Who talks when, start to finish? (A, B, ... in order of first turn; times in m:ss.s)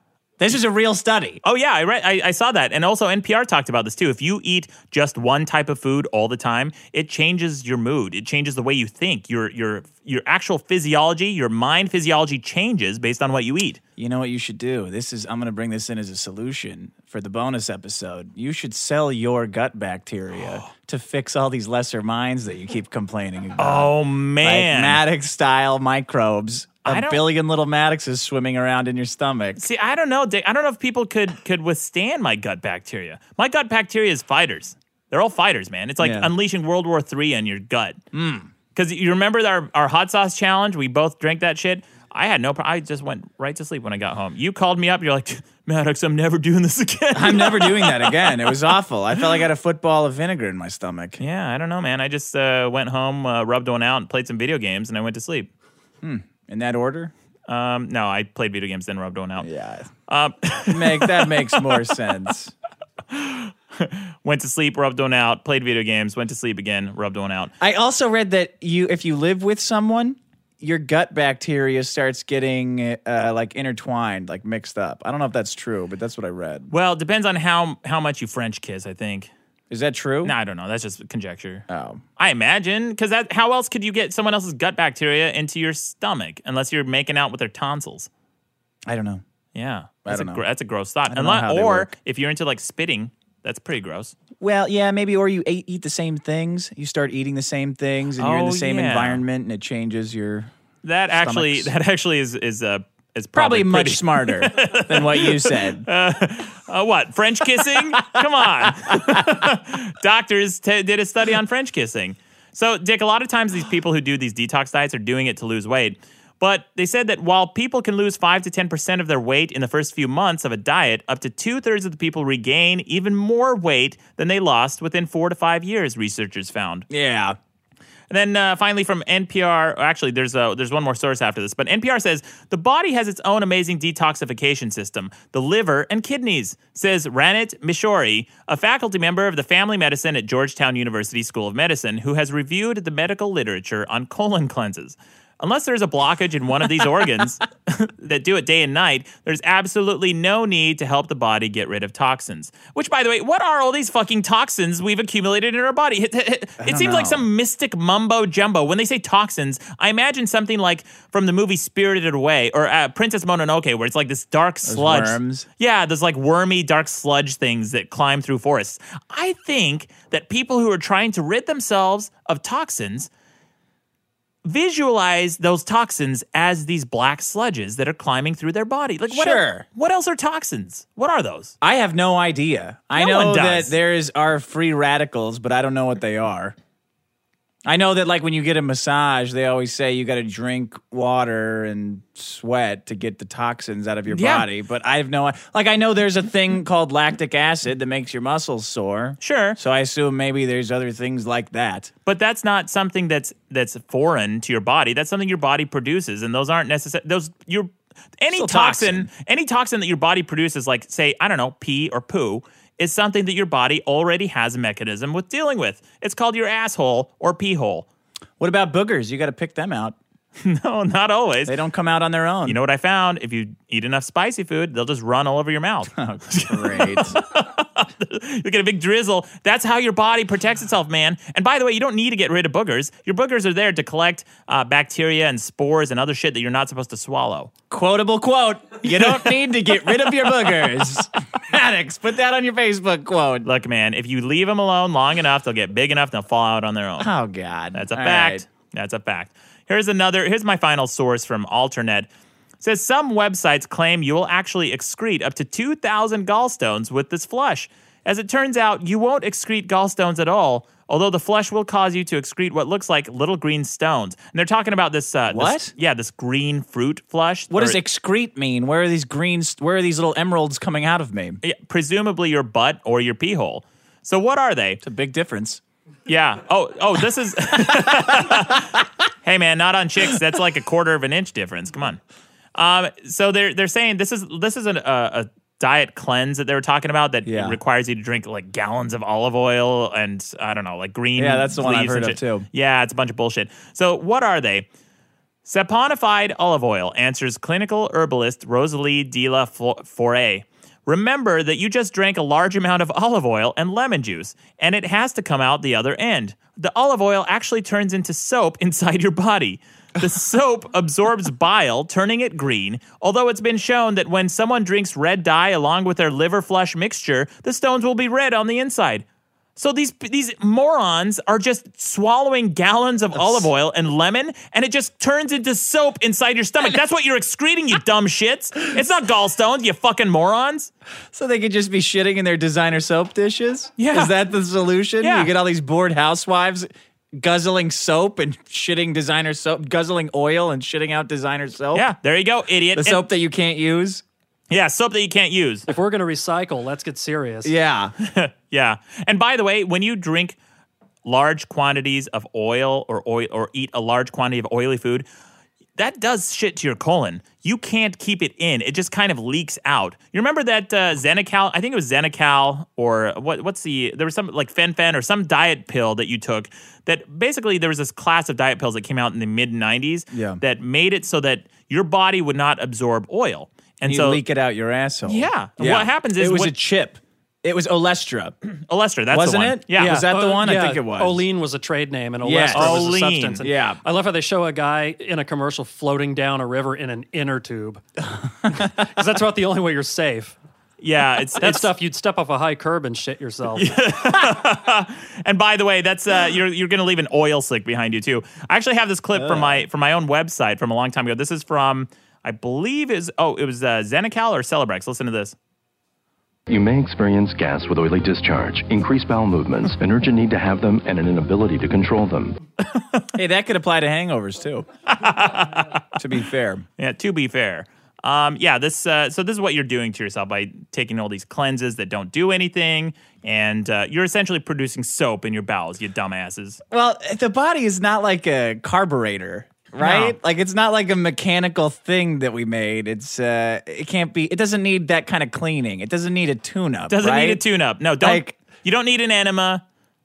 0:00.4-0:01.4 A
0:01.4-0:13.8 B
0:14.0-0:29.6 A
0:20.4-0:20.7 B
0:23.6-0:25.0 B
0:26.8-0:27.2 B
0:29.6-0:38.0 B
0:36.0-0:36.3 A
0:38.1-0:38.5 A
0:38.7-0:49.4 B
0:47.1-0:51.2 A
0:51.2-0:55.5 B
0:56.0-0:57.1 A
0:57.5-0:59.4 B
0:59.4-0:59.9 A
1:00.1-1:01.8 B
1:00.7-1:02.5 A
1:03.1-1:07.5 B
1:07.6-1:16.7 A
1:16.7-1:19.3 B
1:19.7-1:20.3 A
1:20.2-1:21.6 B
1:21.7-1:22.0 A
1:22.2-1:28.1 B
1:28.9-1:29.2 A
1:29.5-1:34.1 B
1:30.0-1:30.4 A
1:31.1-1:31.9 A
1:34.4-1:40.5 A
1:38.2-1:39.2 B
1:40.8-2:06.9 B
1:41.1-1:41.7 A
1:43.3-1:45.9 A
2:06.9-2:07.4 A
2:08.1-2:53.1 B
2:36.6-2:37.2 A
2:44.6-2:45.5 A
2:54.4-3:01.5 B
2:59.1-2:59.6 A
3:01.6-3:06.5 A
3:02.9-3:03.7 B
3:07.6-3:21.9 A
3:14.1-3:14.5 B
3:19.2-3:19.6 B
3:22.0-3:37.9 B
3:28.3-3:29.1 A
3:38.4-3:40.0 A
3:40.4-3:41.5 B
3:41.4-3:42.6 A
3:42.4-3:57.5 B
3:45.9-3:47.2 A
3:57.7-4:03.5 A
3:58.9-4:00.7 B
4:03.4-4:07.1 B
4:07.0-4:08.4 A
4:07.7-4:12.1 B
4:12.6-4:27.8 B
4:25.3-4:25.7 A
4:27.5-4:31.4 A
4:31.4-4:34.8 B
4:34.8-4:35.6 A
4:36.1-4:42.0 B
4:42.5-4:54.7 B
4:47.2-4:47.6 A
4:51.2-4:52.5 A
4:55.4-5:19.0 B
5:19.6-5:30.7 B
5:23.1-5:23.5 A
5:31.1-5:41.9 A
5:33.8-5:34.1 B
5:35.0-5:35.3 B
5:41.7-5:43.1 B
5:42.7-5:44.0 A
5:44.5-5:45.7 B
5:45.7-5:47.5 C
5:47.4-5:47.9 A
5:48.0-5:50.4 B
5:51.0-5:55.1 B
5:55.8-6:14.2 B
6:10.1-6:10.4 A
6:13.8-6:18.3 A
6:15.0-6:16.5 B
6:18.4-6:20.0 B
6:19.1-6:21.2 A
6:20.0-6:27.8 C
6:22.2-6:22.9 A
6:22.5-6:23.4 B
6:23.4-6:23.8 A
6:28.5-6:28.7 A
6:28.5-6:30.4 C
6:30.8-6:31.7 B
6:31.4-6:33.7 C
6:33.5-6:45.4 B
6:39.1-6:39.6 A
6:46.5-6:52.4 D
6:53.1-6:54.7 A
6:54.9-6:55.8 B
6:56.0-6:56.6 A
6:56.8-7:06.6 B
7:06.7-7:17.4 A
7:09.8-7:10.2 B
7:16.9-7:19.6 B
7:18.0-7:18.3 A